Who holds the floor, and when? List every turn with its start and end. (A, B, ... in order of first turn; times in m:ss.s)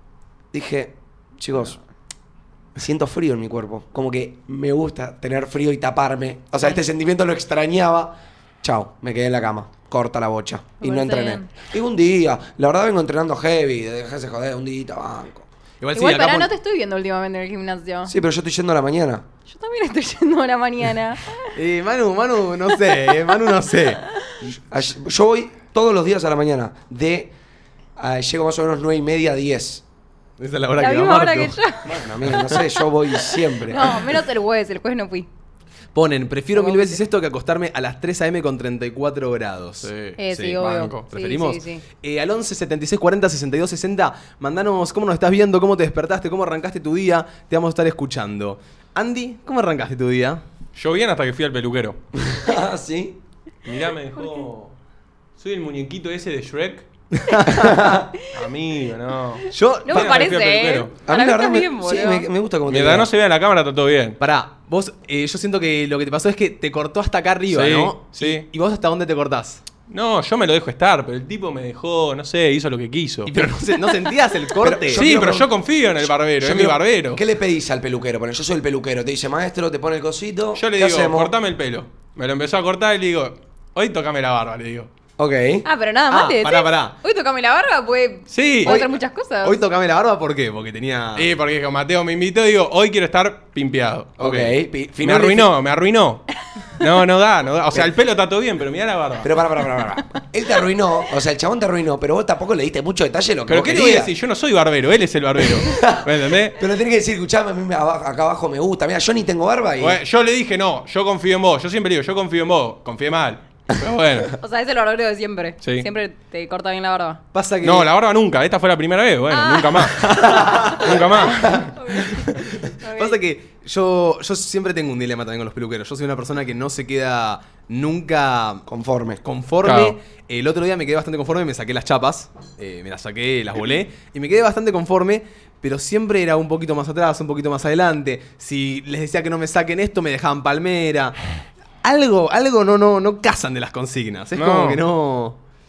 0:00.5-0:01.8 A
0:02.8-0:15.5 A
0:10.8-0:11.5 B
0:15.8-0:16.5 C
0:15.9-0:18.1 B
0:18.1-0:19.2 A
0:19.5-0:21.5 B
0:21.6-0:24.0 C
0:22.9-0:23.2 B
0:24.4-0:27.3 A
0:28.0-0:29.8 A
0:30.4-0:31.6 C
0:30.8-0:32.0 B
0:31.9-0:34.1 A
0:32.2-0:32.6 C
0:33.7-0:35.3 B
0:35.9-0:50.4 C
0:36.5-0:37.0 B
0:39.8-0:41.1 D
0:40.2-0:41.8 B
0:50.8-0:52.0 D
0:52.2-0:53.2 A
0:53.6-0:54.8 D
0:55.4-0:56.9 D
0:57.2-0:57.8 C
0:57.6-0:58.1 A
0:58.3-1:01.0 D
0:59.5-1:00.2 C
0:59.8-1:02.3 B
1:01.0-1:03.1 A
1:02.7-1:04.2 D
1:04.2-1:09.6 C
1:07.5-1:08.5 D
1:09.9-1:13.5 D
1:13.3-1:15.1 C
1:14.6-1:21.4 A
1:14.9-1:17.2 D
1:20.5-1:24.9 D
1:25.2-1:25.6 A
1:25.6-1:29.6 B
1:26.1-1:27.0 C
1:28.3-1:28.8 D
1:28.6-1:31.3 C
1:31.2-1:34.2 D
1:34.2-1:35.5 A
1:34.2-1:34.5 C
1:35.0-1:39.3 D
1:39.2-1:44.1 A
1:43.5-1:46.6 D
1:45.4-1:50.0 A
1:49.8-1:54.3 D
1:54.4-1:57.2 B
1:55.6-1:55.9 D
1:57.3-1:57.9 C
1:57.6-2:00.2 D
1:59.3-2:00.3 B
2:00.0-2:00.8 C
2:00.7-2:01.7 D
2:01.2-2:03.2 B
2:02.9-2:08.6 C
2:08.7-2:09.2 A
2:09.2-2:21.2 C
2:09.6-2:10.0 D
2:21.8-2:25.4 C
2:24.4-2:24.8 D